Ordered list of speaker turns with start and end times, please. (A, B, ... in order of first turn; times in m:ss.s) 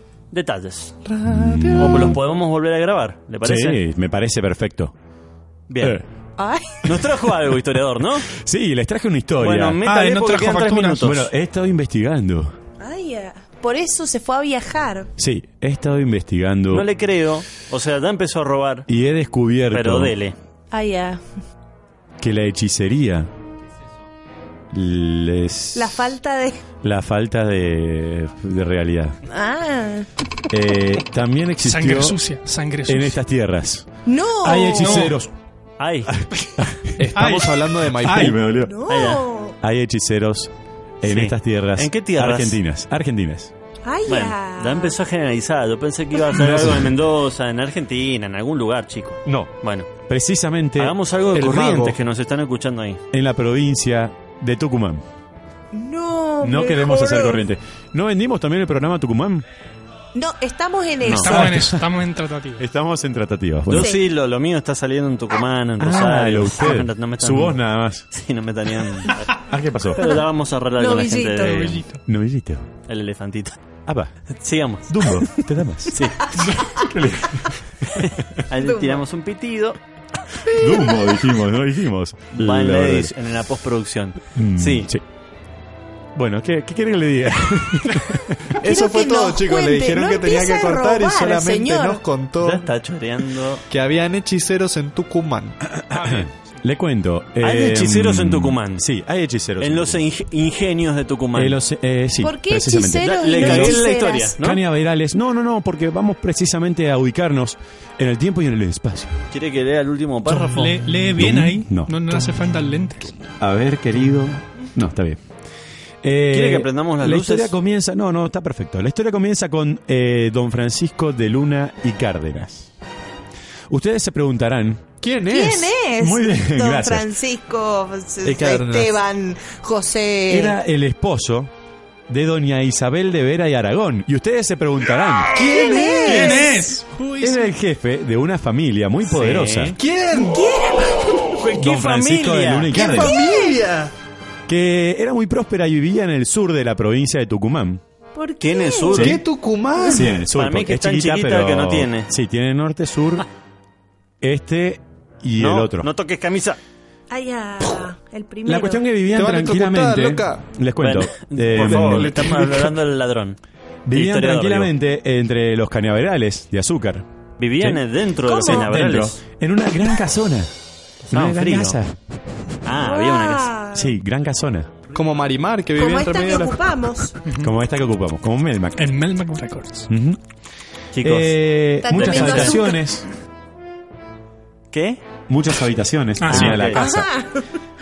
0:00.3-0:00.9 A
0:01.0-0:02.1 B
0:01.2-0:02.2 C
0:01.8-0:03.8 A
0:03.4-0:04.9 C
0:05.7-0:06.0 A
0:06.4-0:06.9 D
0:06.8-0:08.3 A
0:08.3-0:09.8 C
0:09.4-0:11.3 A
0:09.8-0:11.1 E
0:11.0-0:12.5 C
0:12.8-0:15.1 D
0:15.2-0:16.9 C
0:16.7-0:18.9 A
0:18.9-0:20.1 C
0:19.7-0:20.4 A
0:20.7-0:21.2 D
0:22.2-0:23.3 C
0:24.7-0:26.0 C
0:25.7-0:26.6 D
0:26.8-0:29.2 C
0:29.3-0:30.1 D
0:30.5-0:32.2 C
0:31.6-0:33.2 E
0:32.8-0:33.9 C
0:34.0-0:35.0 D
0:34.4-0:35.3 C
0:34.8-0:35.1 E
0:35.8-0:36.1 A
0:36.1-0:38.8 C
0:37.0-0:38.4 B
0:37.1-0:37.5 E
0:38.6-0:39.6 D
0:38.9-0:39.2 A
0:39.6-0:43.5 C
0:41.0-0:42.6 A
0:43.8-0:45.0 D
0:44.1-0:49.9 A
0:46.3-0:46.9 C
0:49.2-0:52.0 C
0:50.8-0:53.0 A
0:51.4-0:51.8 B
0:53.1-0:55.0 C
0:55.7-0:57.4 D
0:56.4-0:59.4 C
1:00.1-1:01.3 D
1:01.0-1:01.4 A
1:01.1-1:02.6 E
1:01.3-1:01.9 C
1:02.6-1:04.0 C
1:03.7-1:11.8 A
1:03.7-1:04.0 D
1:05.8-1:08.0 C
1:09.4-1:10.1 C
1:10.8-1:11.8 D
1:11.5-1:12.0 E
1:12.1-1:12.7 C
1:12.9-1:13.6 A
1:13.8-1:14.1 C
1:14.4-1:15.1 A
1:14.9-1:16.0 C
1:15.9-1:16.5 A
1:16.7-1:18.1 C
1:17.9-1:19.8 A
1:18.6-1:19.0 D
1:20.5-1:23.1 C
1:20.5-1:21.0 D
1:22.3-1:24.9 A
1:24.3-1:25.0 C
1:26.1-1:28.5 C
1:28.5-1:32.6 B
1:28.6-1:32.0 D
1:32.4-1:33.6 A
1:33.7-1:35.6 B
1:35.7-1:40.0 C
1:37.4-1:38.8 A
1:39.6-1:41.6 A
1:41.3-1:43.9 C
1:42.2-1:44.3 D
1:43.1-1:44.6 A
1:44.4-1:49.2 C
1:49.3-1:50.8 A
1:50.3-1:53.1 E
1:51.2-1:52.3 C
1:53.4-1:55.2 C
1:56.0-2:02.7 C
1:56.3-1:57.5 A
2:03.7-2:04.8 C
2:05.0-2:05.8 B
2:05.3-2:10.6 D
2:06.0-2:07.1 C
2:08.2-2:08.9 B
2:10.3-2:11.5 C
2:12.1-2:15.5 C
2:15.3-2:16.6 B
2:15.4-2:16.6 D
2:15.9-2:17.4 E
2:17.2-2:19.8 C
2:19.0-2:19.8 A
2:19.8-2:21.1 B
2:20.1-2:21.4 D
2:21.4-2:22.8 A
2:21.5-2:23.2 C
2:22.7-2:23.9 B
2:22.8-2:23.6 D
2:24.5-2:27.8 C
2:28.1-2:29.0 D
2:28.4-2:29.2 A
2:28.9-2:29.2 C
2:28.9-2:30.1 B
2:29.8-2:33.2 C
2:30.2-2:32.1 A
2:34.2-2:35.9 C
2:35.4-2:36.6 A
2:37.1-2:38.9 D
2:38.4-2:42.3 C
2:39.1-2:40.4 B
2:40.8-2:43.4 A
2:41.5-2:42.7 B
2:43.8-2:47.0 C
2:43.9-2:44.7 A
2:47.4-2:49.2 A
2:48.2-2:48.7 D
2:48.4-2:50.5 C
2:51.1-2:51.8 A
2:51.1-2:52.0 C
2:52.6-2:53.5 A
2:52.8-2:53.9 D
2:53.7-2:54.7 C
2:54.9-2:56.6 B
2:55.8-2:57.2 D
2:57.4-2:58.9 C
2:58.8-2:59.9 E
2:59.9-3:00.2 C
3:00.9-3:01.4 A
3:01.0-3:03.1 C
3:01.8-3:02.8 D
3:01.9-3:02.6 A
3:04.7-3:05.0 A
3:05.3-3:07.1 C
3:06.2-3:06.6 E
3:06.3-3:06.8 A
3:06.8-3:07.4 D